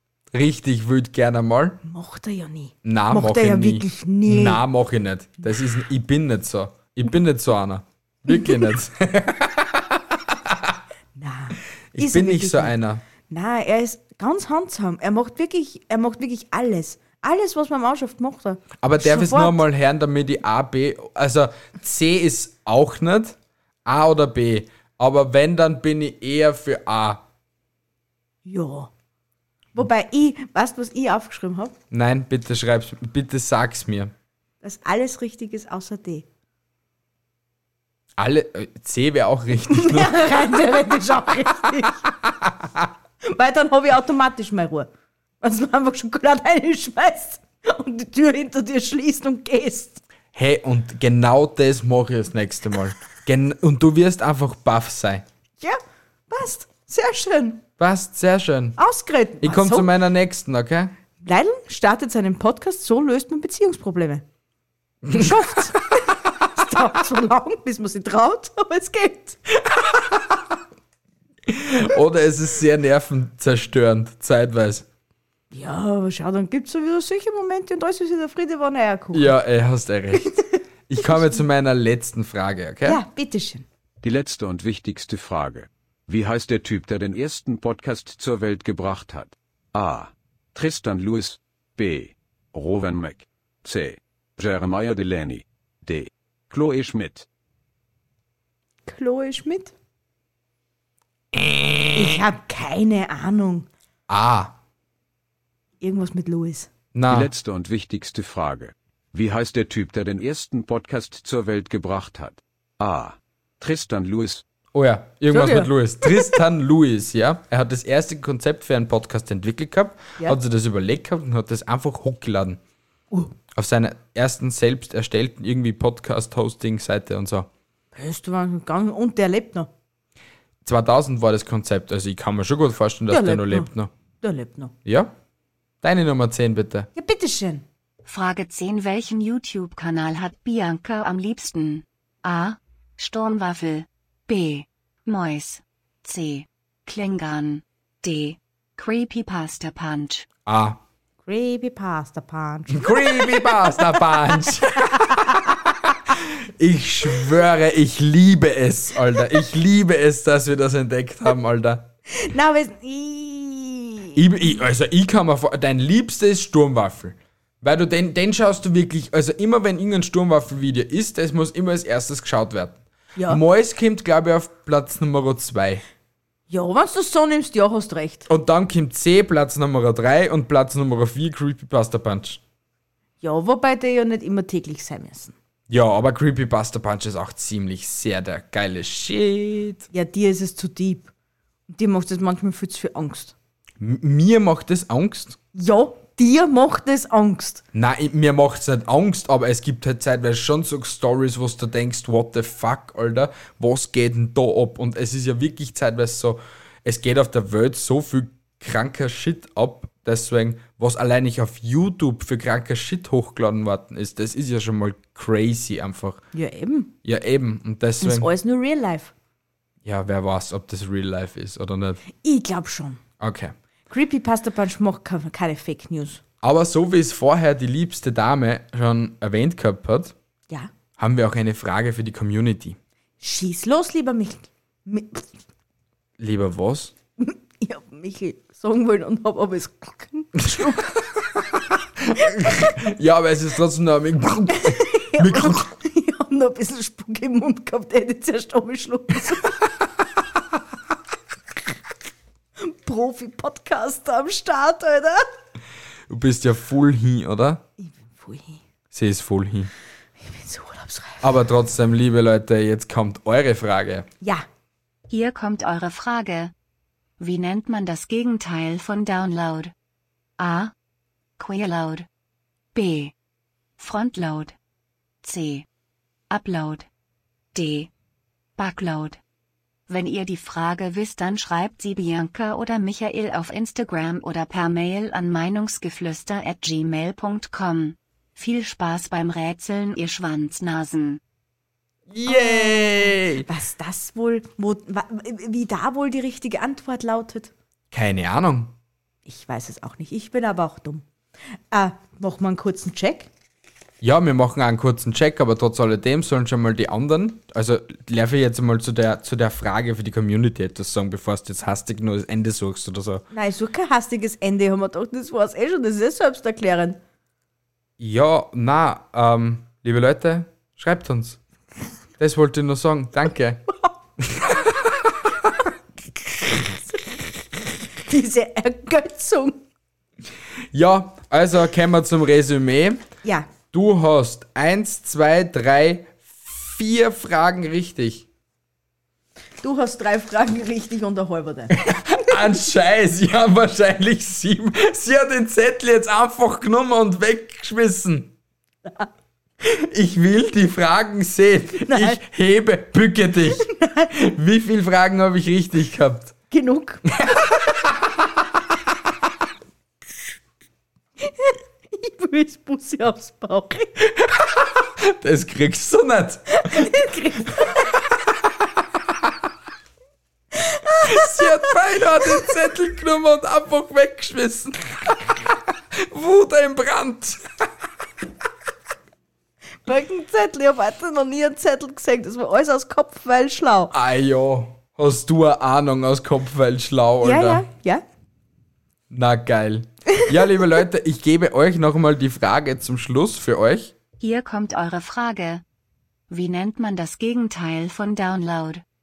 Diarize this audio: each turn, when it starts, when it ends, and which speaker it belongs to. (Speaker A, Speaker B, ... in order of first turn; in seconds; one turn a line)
Speaker A: 0.3-1.8
Speaker B: 1.8-4.6
Speaker A: 2.8-10.8
Speaker B: 11.2-12.8
Speaker A: 11.9-13.0
Speaker B: 13.3-19.6
Speaker A: 18.8-27.2
Speaker B: 28.5-28.9
Speaker B: 29.8-31.8
Speaker A: 31.9-34.1
Speaker B: 34.6-36.3
Speaker A: 38.2-40.5
Speaker B: 39.7-42.1
Speaker A: 42.4-42.9
Speaker B: 43.2-44.9
Speaker B: 45.4-50.0
Speaker A: 50.3-55.2
Speaker B: 55.6-57.6
Speaker A: 57.8-58.8
Speaker B: 58.8-59.9
Speaker A: 59.4-60.9
Speaker B: 61.2-64.2
Speaker A: 65.0-65.4
Speaker B: 65.1-69.7
Speaker A: 71.5-74.9
Speaker B: 75.5-79.3
Speaker A: 79.1-80.3
Speaker A: 80.9-83.0
Speaker B: 82.8-83.7
Speaker C: 84.0-97.3
Speaker B: 98.9-99.7
Speaker B: 101.9-103.7
Speaker A: 104.1-104.5
Speaker B: 105.8-106.7
Speaker A: 106.9-107.3
Speaker C: 107.1-114.4
Speaker A: 114.7-122.6
Speaker B: 115.3-116.4
Speaker A: 123.5-127.5
Speaker B: 127.9-129.7
Speaker A: 130.6-133.9
Speaker B: 133.1-133.7
Speaker B: 134.2-134.7
Speaker A: 134.8-135.1
Speaker A: 135.8-136.9
Speaker B: 136.9-137.7
Speaker D: 138.1-150.3
Speaker A: 150.5-150.8
Speaker B: 151.3-154.0
Speaker A: 152.7-161.9
Speaker B: 154.7-155.4
Speaker B: 162.1-164.2
Speaker A: 164.2-175.8
Speaker B: 173.2-173.4
Speaker B: 176.5-178.3
Speaker A: 178.3-182.4
Speaker B: 183.2-185.3
Speaker A: 185.7-189.9
Speaker B: 189.9-191.1
Speaker B: 191.7-193.3
Speaker A: 193.8-195.4
Speaker B: 195.6-197.6
Speaker A: 197.7-216.2
Speaker B: 216.3-216.9
Speaker A: 217.1-218.3
Speaker B: 218.0-219.1
Speaker A: 219.8-222.0
Speaker B: 222.2-223.0
Speaker A: 223.2-223.5
Speaker B: 223.9-226.2
Speaker A: 226.4-230.2
Speaker A: 231.0-232.8
Speaker B: 233.2-235.3
Speaker A: 236.2-236.9
Speaker B: 237.2-241.0
Speaker A: 242.0-245.7
Speaker B: 244.6-249.6
Speaker B: 252.6-255.3
Speaker A: 256.1-257.6
Speaker B: 257.8-258.6
Speaker A: 258.9-259.7
Speaker B: 260.2-261.3
Speaker A: 261.2-264.1
Speaker D: 265.1-266.5
Speaker D: 267.2-269.7
Speaker D: 270.4-270.7
Speaker D: 271.4-272.1
Speaker D: 272.8-273.1
Speaker D: 273.8-274.6
Speaker D: 275.2-275.7
Speaker D: 276.3-276.9
Speaker D: 277.6-277.9
Speaker D: 278.6-279.2
Speaker D: 279.9-291.2
Speaker A: 292.1-293.5
Speaker B: 292.3-297.5
Speaker A: 297.9-298.7
Speaker B: 299.3-301.1
Speaker B: 301.7-303.3
Speaker A: 304.0-313.2
Speaker B: 313.3-317.0
Speaker A: 318.0-321.4
Speaker A: 322.2-323.6
Speaker A: 324.2-325.5
Speaker B: 326.5-329.6
Speaker A: 330.7-333.0
Speaker B: 333.2-333.5
Speaker A: 333.7-338.3
Speaker B: 339.6-341.8
Speaker A: 341.7-348.3
Speaker A: 349.6-356.4
Speaker B: 351.8-352.2
Speaker B: 353.6-354.1
Speaker B: 356.5-357.1
Speaker A: 357.2-358.0
Speaker B: 361.2-363.9
Speaker A: 364.2-366.9
Speaker B: 366.5-367.8
Speaker B: 370.6-371.7
Speaker A: 371.0-377.6
Speaker B: 379.9-383.9
Speaker A: 383.9-387.6
Speaker B: 387.2-388.0
Speaker A: 389.1-393.9
Speaker D: 394.2-395.6
Speaker D: 396.3-398.8